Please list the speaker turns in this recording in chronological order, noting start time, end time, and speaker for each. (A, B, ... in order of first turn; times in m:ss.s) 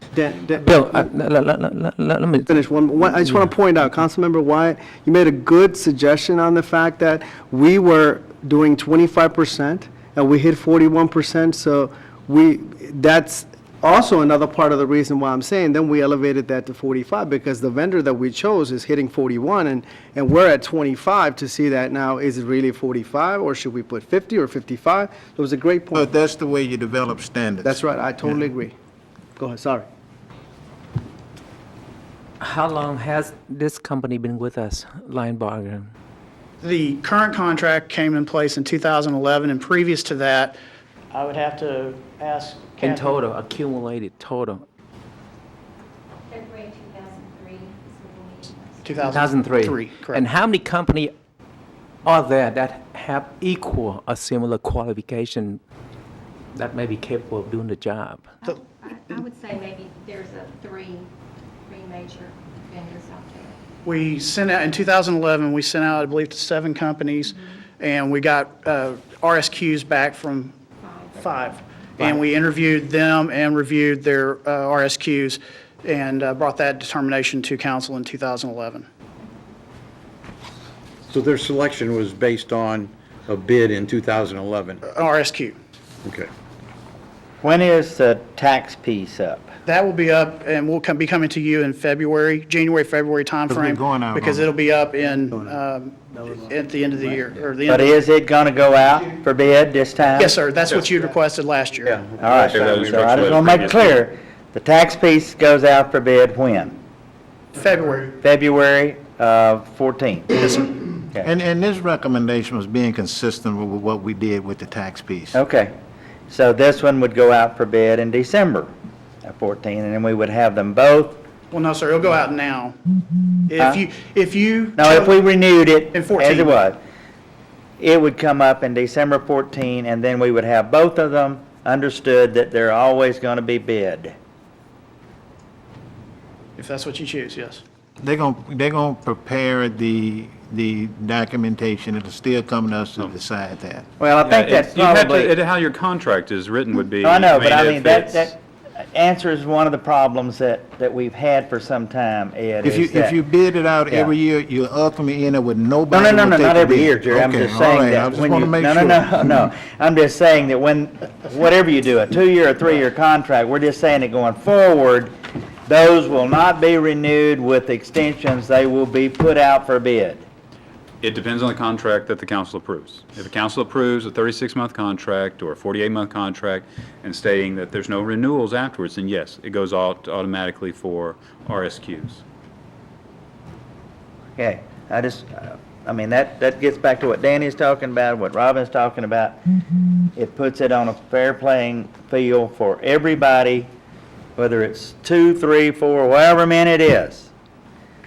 0:00.1-0:01.1 A
0:00.5-0:02.6 B
0:02.5-0:26.1 A
0:25.9-0:28.4 C
0:27.6-0:28.7 A
0:29.4-0:29.9 A
0:32.4-0:35.9 B
0:36.6-0:40.6 D
0:41.1-0:43.2 D
0:42.8-0:44.6 B
0:46.3-0:48.9 E
0:48.8-0:50.3 D
0:49.0-0:51.1 B
0:52.0-0:55.6 B
0:56.5-0:58.3 B
0:58.4-0:59.2 D
0:58.8-1:01.1 E
1:01.7-1:03.6 E
1:03.8-1:10.6 D
1:10.8-1:11.3 E
1:11.2-1:18.9 D
1:21.1-1:24.8 F
1:24.8-1:25.6 D
1:27.4-1:29.5 G
1:29.7-1:38.0 D
1:33.5-1:34.5 C
1:37.7-1:40.4 G
1:40.2-1:42.1 D
1:42.1-1:46.8 G
1:42.3-1:42.8 F
1:42.3-1:44.0 H
1:47.5-1:48.2 D
1:48.2-1:51.3 G
1:51.2-1:55.4 C
1:55.3-1:55.8 G
1:56.3-1:58.7 G
1:59.2-2:01.2 G
2:01.5-2:02.8 D
2:03.5-2:05.1 D
2:03.6-2:03.8 G
2:04.8-2:06.8 G
2:05.9-2:06.6 D
2:07.8-2:14.2 G
2:16.6-2:17.6 D
2:18.0-2:23.9 C
2:24.0-2:25.3 G
2:24.2-2:28.3 H
2:27.0-2:33.2 G
2:32.6-2:39.5 C
2:33.9-2:34.1 G
2:35.9-2:45.1 G
2:45.7-2:50.3 G
2:51.0-3:02.2 H
3:04.4-3:09.4 G
3:10.2-3:13.7 G
3:14.4-3:17.3 G